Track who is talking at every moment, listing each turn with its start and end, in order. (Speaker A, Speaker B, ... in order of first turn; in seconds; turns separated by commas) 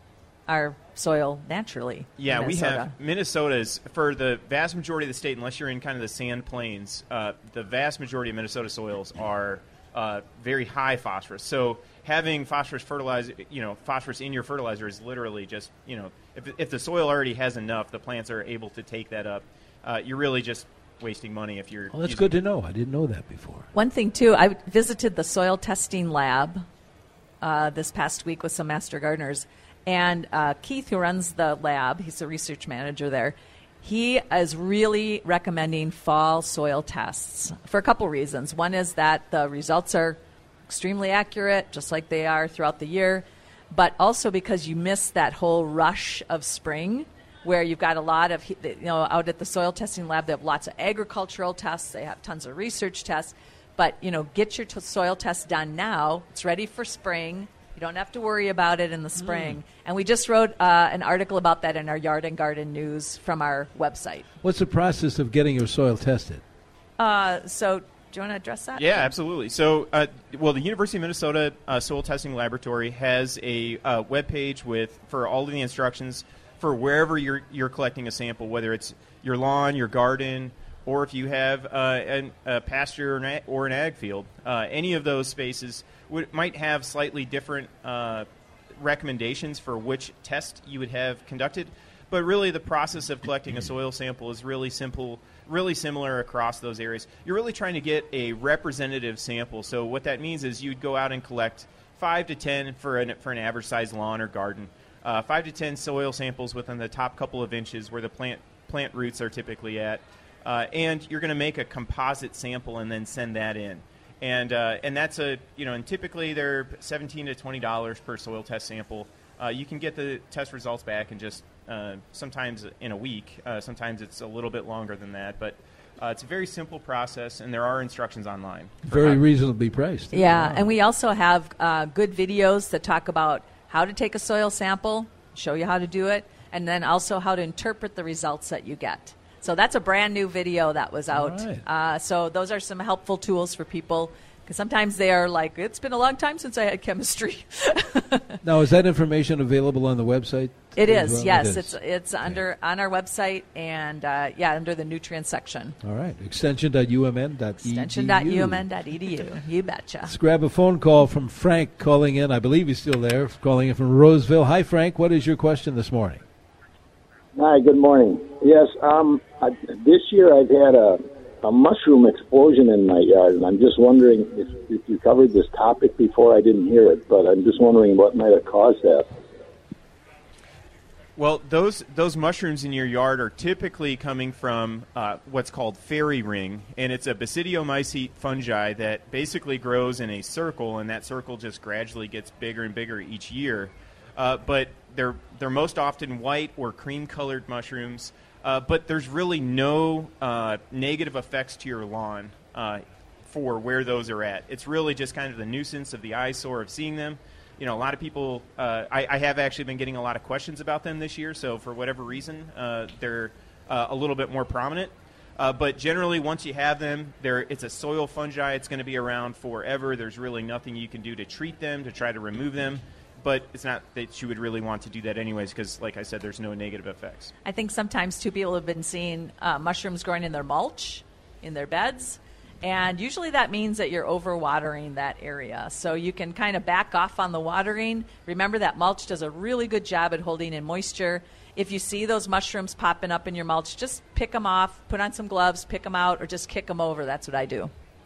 Speaker A: 0.5-2.9, Speaker B: 2.2-22.3, Speaker C: 21.9-23.7, Speaker A: 23.7-26.6, Speaker A: 27.4-64.3, Speaker C: 64.4-66.4, Speaker A: 67.0-69.1, Speaker B: 68.8-88.3, Speaker B: 88.8-129.2, Speaker C: 128.9-130.7, Speaker A: 130.1-148.4, Speaker C: 141.1-141.6, Speaker C: 148.4-152.4, Speaker A: 150.8-155.8, Speaker C: 155.8-158.7, Speaker A: 157.6-160.1, Speaker C: 160.1-166.2, Speaker D: 167.4-179.1, Speaker B: 181.2-227.3, Speaker A: 227.4-247.7